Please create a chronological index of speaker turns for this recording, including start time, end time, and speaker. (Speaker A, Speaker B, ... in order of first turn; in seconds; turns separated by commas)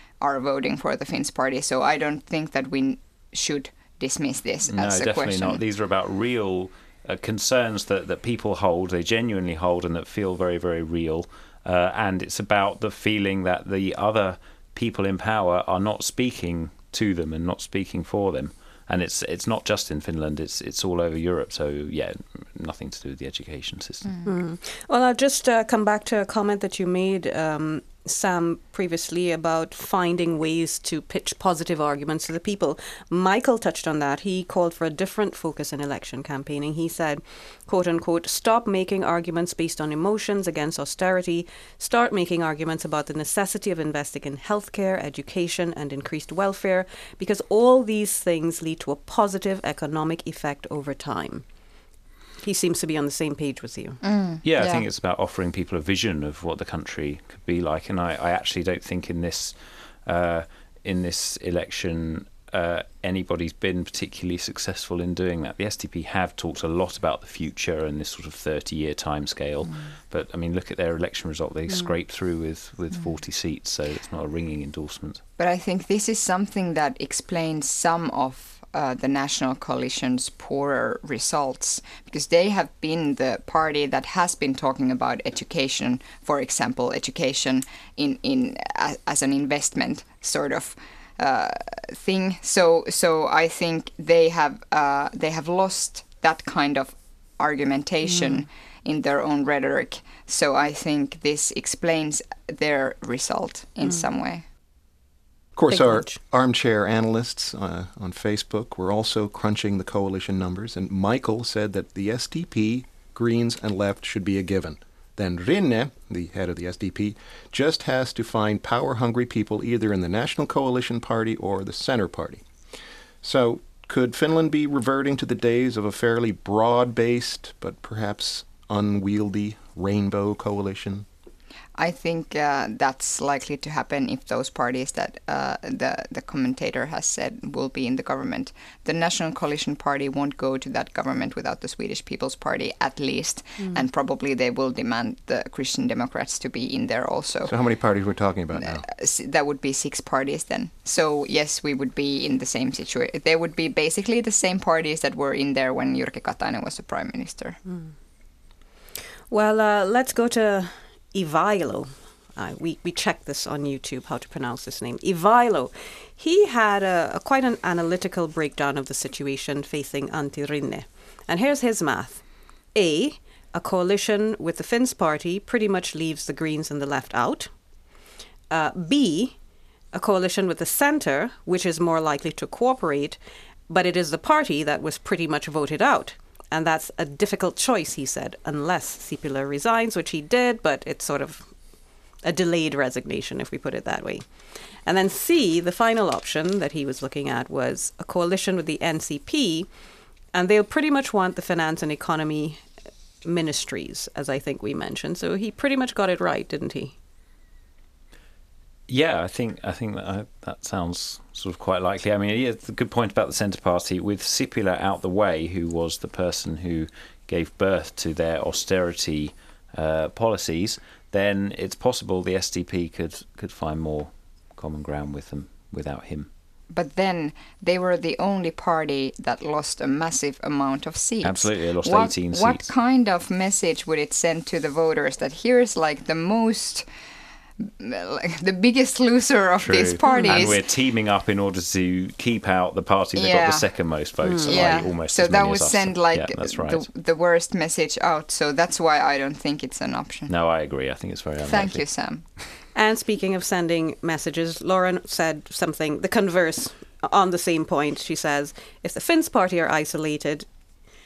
Speaker A: 0.2-5.6, Speaker B: 4.7-24.1, Speaker C: 24.2-51.4, Speaker C: 52.4-54.0, Speaker A: 54.0-54.9, Speaker B: 54.5-59.5, Speaker B: 60.1-75.2, Speaker A: 75.4-104.5, Speaker D: 105.6-122.5, Speaker C: 105.7-106.2, Speaker D: 123.2-131.1, Speaker A: 131.8-147.6, Speaker D: 147.5-148.8, Speaker A: 148.6-157.6, Speaker C: 159.3-172.2, Speaker C: 172.8-177.5, Speaker C: 178.5-179.4, Speaker C: 179.9-183.2, Speaker C: 183.7-191.5, Speaker C: 192.2-194.3, Speaker C: 194.8-199.7, Speaker C: 200.3-202.6, Speaker C: 203.2-207.0, Speaker B: 208.9-226.3, Speaker A: 226.7-236.9, Speaker B: 231.2-232.7, Speaker A: 237.6-240.6, Speaker B: 239.6-246.9, Speaker A: 243.2-243.7, Speaker C: 244.2-244.6, Speaker A: 244.4-250.3, Speaker B: 250.3-251.8, Speaker A: 251.4-252.3, Speaker C: 252.8-260.5